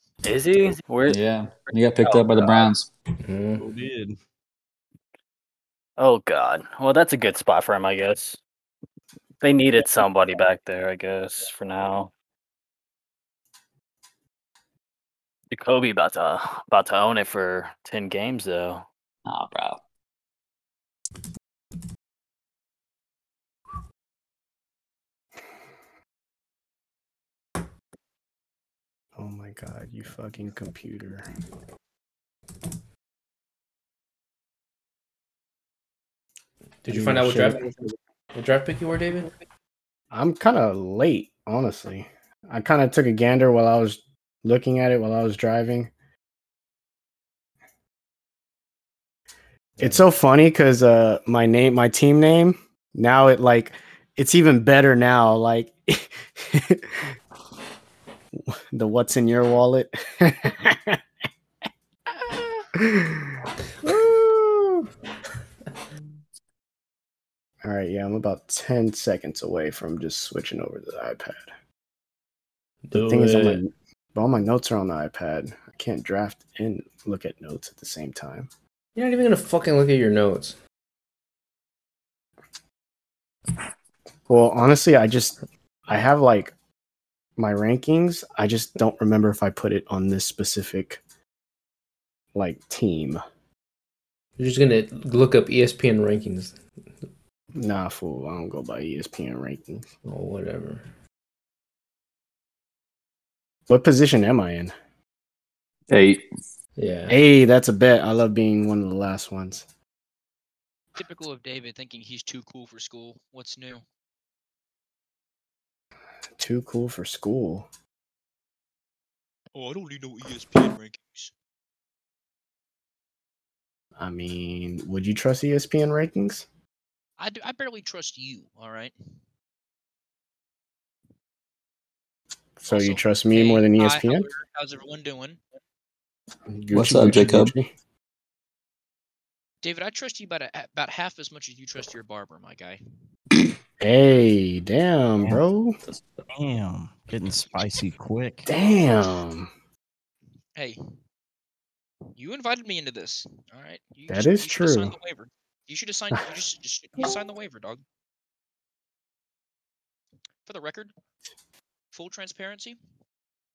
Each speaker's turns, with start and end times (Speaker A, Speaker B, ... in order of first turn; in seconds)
Speaker A: 0.2-1.2, 1.7-2.7, 6.0-8.4, 9.4-12.1, 15.5-18.9
Speaker B: 1.1-2.9, 19.3-19.8, 105.9-106.2, 136.7-137.5
Speaker C: 3.2-3.6, 36.8-37.7, 38.3-39.3, 72.9-73.6, 79.0-80.6, 94.4-96.6, 100.0-100.9, 106.8-107.2
Speaker D: 3.6-4.2, 146.2-148.5
Speaker E: 29.2-31.3, 36.9-37.9, 40.1-45.9, 49.8-57.0, 58.5-61.0, 62.2-64.9, 67.6-71.5, 72.9-78.5, 84.3-86.5, 87.4-91.0, 92.3-93.2, 97.5-99.8, 103.7-104.7, 107.1-109.7, 116.4-117.7, 124.0-126.5, 132.6-134.3, 136.5-137.7, 143.8-145.8, 148.5-149.5, 154.1-154.9
Speaker F: 111.0-113.8, 119.5-121.3, 127.2-128.9, 132.7-135.4, 139.6-142.8, 152.2-157.8, 160.5-160.9, 161.9-162.8